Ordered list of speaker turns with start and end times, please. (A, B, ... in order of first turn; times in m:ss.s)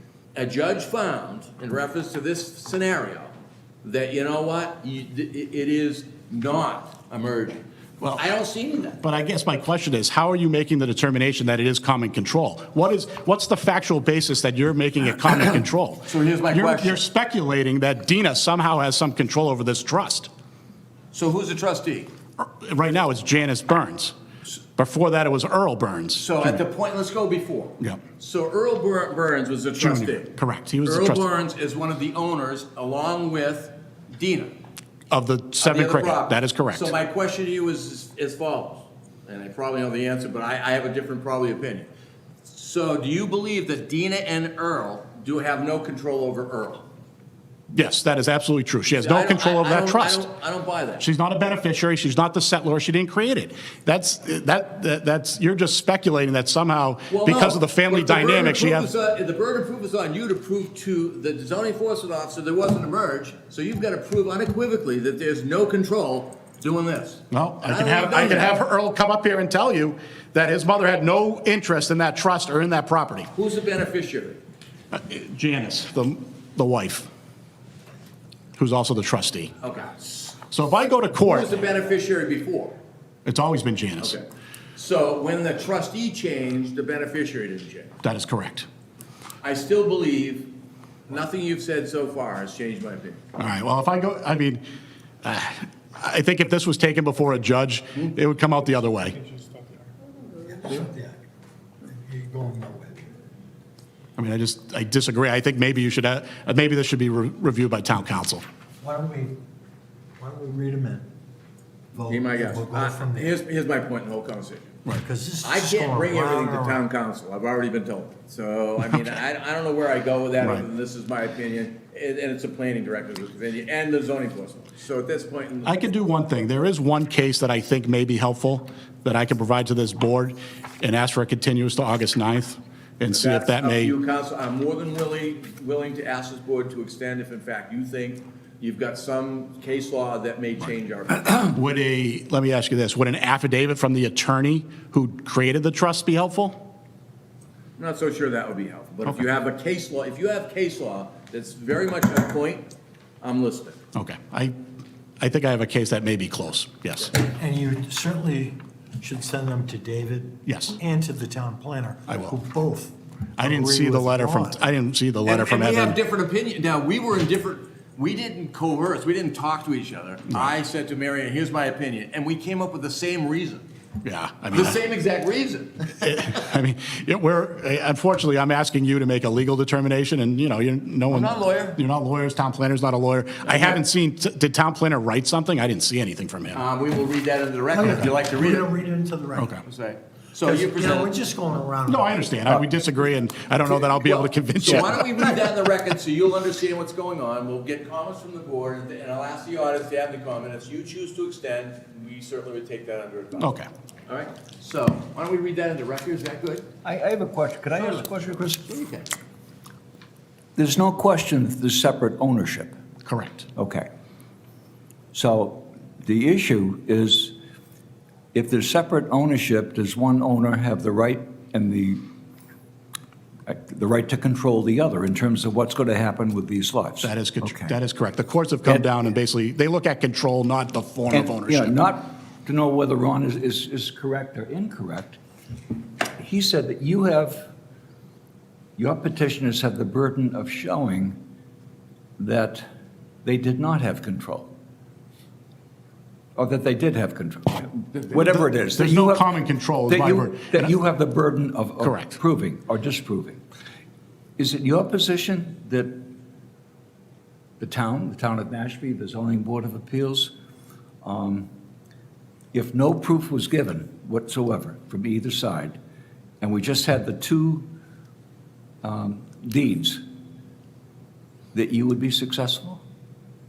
0:00.3-0:07.6 A
0:08.0-0:08.3 B
0:08.2-0:09.0 A
0:09.0-0:20.3 B
0:16.1-0:17.0 A
0:21.1-0:22.1 A
0:22.4-0:24.1 B
0:24.8-0:26.6 B
0:26.1-0:34.6 A
0:29.8-0:31.2 B
0:35.1-0:36.9 B
0:35.6-0:41.9 A
0:42.4-0:46.8 A
0:47.7-0:50.3 B
0:49.0-0:51.0 A
0:51.0-0:58.9 B
0:57.1-1:08.6 A
1:07.3-1:13.3 B
1:13.3-1:14.4 A
1:14.9-1:17.1 B
1:18.6-1:19.5 B
1:19.6-1:20.5 A
1:20.5-1:21.5 B
1:21.2-1:22.8 A
1:23.3-1:24.1 B
1:24.0-1:24.2 A
1:24.8-1:28.0 A
1:28.0-1:28.7 B
1:29.4-1:30.5 A
1:31.1-1:33.2 A
1:33.4-1:34.6 B
1:35.2-1:39.2 B
1:39.2-1:39.8 C
1:40.4-1:41.2 C
1:41.8-1:43.1 C
1:44.2-1:48.4 B
1:48.8-1:49.4 C
1:50.2-1:51.1 C
1:51.9-1:53.4 C
1:52.1-1:54.7 A
1:54.9-1:56.8 C
1:55.4-2:05.9 A
2:05.6-2:13.9 B
2:13.1-2:21.6 A
2:21.5-2:26.6 B
2:27.8-2:32.7 A
2:33.2-2:33.8 A
2:34.0-2:34.6 B
2:35.2-2:37.1 B
2:37.2-2:44.6 C
2:40.5-2:40.8 B
2:42.1-2:42.4 B
2:43.4-2:46.0 B
2:45.2-2:53.6 A
2:54.0-2:54.8 B
2:54.5-2:56.2 A
2:56.0-3:06.6 B
3:01.1-3:01.8 A
3:03.5-3:03.8 A
3:06.5-3:08.7 A
3:07.7-3:09.5 C
3:09.4-3:09.6 B
3:09.6-3:11.1 A
3:10.4-3:12.6 C
3:11.9-3:15.4 B
3:13.7-3:26.7 A
3:23.4-3:23.7 B
3:26.8-3:28.7 D
3:27.7-3:28.1 A
3:28.6-3:29.1 A
3:30.6-3:32.8 D
3:33.0-3:33.4 B
3:33.6-3:33.9 D
3:35.1-3:37.4 D
3:38.3-3:42.0 D
3:43.5-3:47.8 D
3:47.0-3:51.8 B
3:51.1-3:55.2 D
3:56.2-3:57.5 D
3:58.8-4:01.2 D
4:02.2-4:02.7 D
4:03.2-4:04.5 D
4:06.4-4:09.3 D
4:08.2-4:10.7 B
4:09.9-4:13.4 D
4:11.8-4:12.2 B
4:14.4-4:16.0 D
4:17.6-4:20.3 D
4:21.0-4:21.5 D
4:22.5-4:25.8 D
4:26.4-4:27.7 D
4:28.8-4:30.0 D
4:31.5-4:32.8 D